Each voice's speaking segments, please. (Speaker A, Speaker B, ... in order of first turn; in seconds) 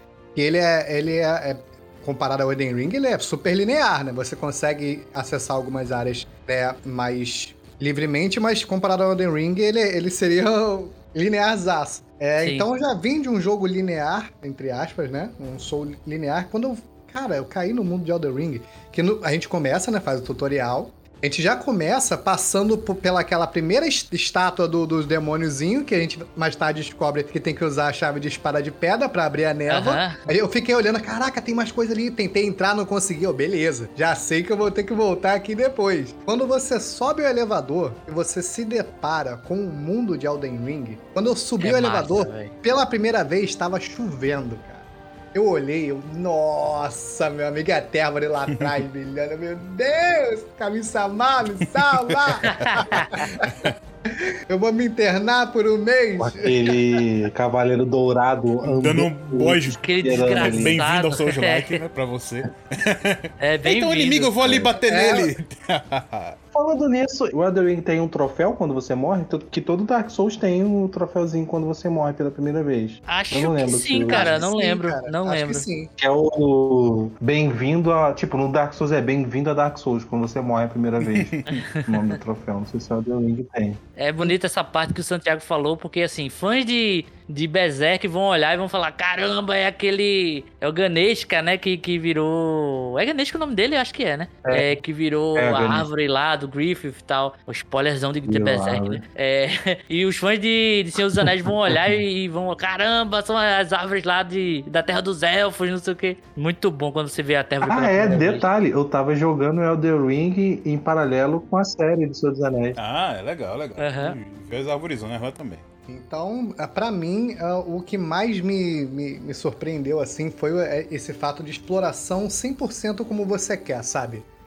Speaker A: 0.3-56.6, 64.7-65.3, 74.0-75.9, 115.9-124.3
Speaker B: 12.4-12.7, 29.7-30.2, 41.6-42.5, 52.4-53.2, 59.8-61.8, 63.4-64.3, 73.1-75.6, 81.5-82.0, 84.0-108.5, 113.8-114.2
Speaker C: 52.1-52.8, 53.4-53.7, 58.7-66.4, 81.0-81.6, 112.8-115.6
Speaker D: 56.2-60.8, 64.4-64.7, 66.5-74.4, 76.0-83.8, 94.5-94.8, 95.4-95.9, 98.2-99.0, 107.6-112.8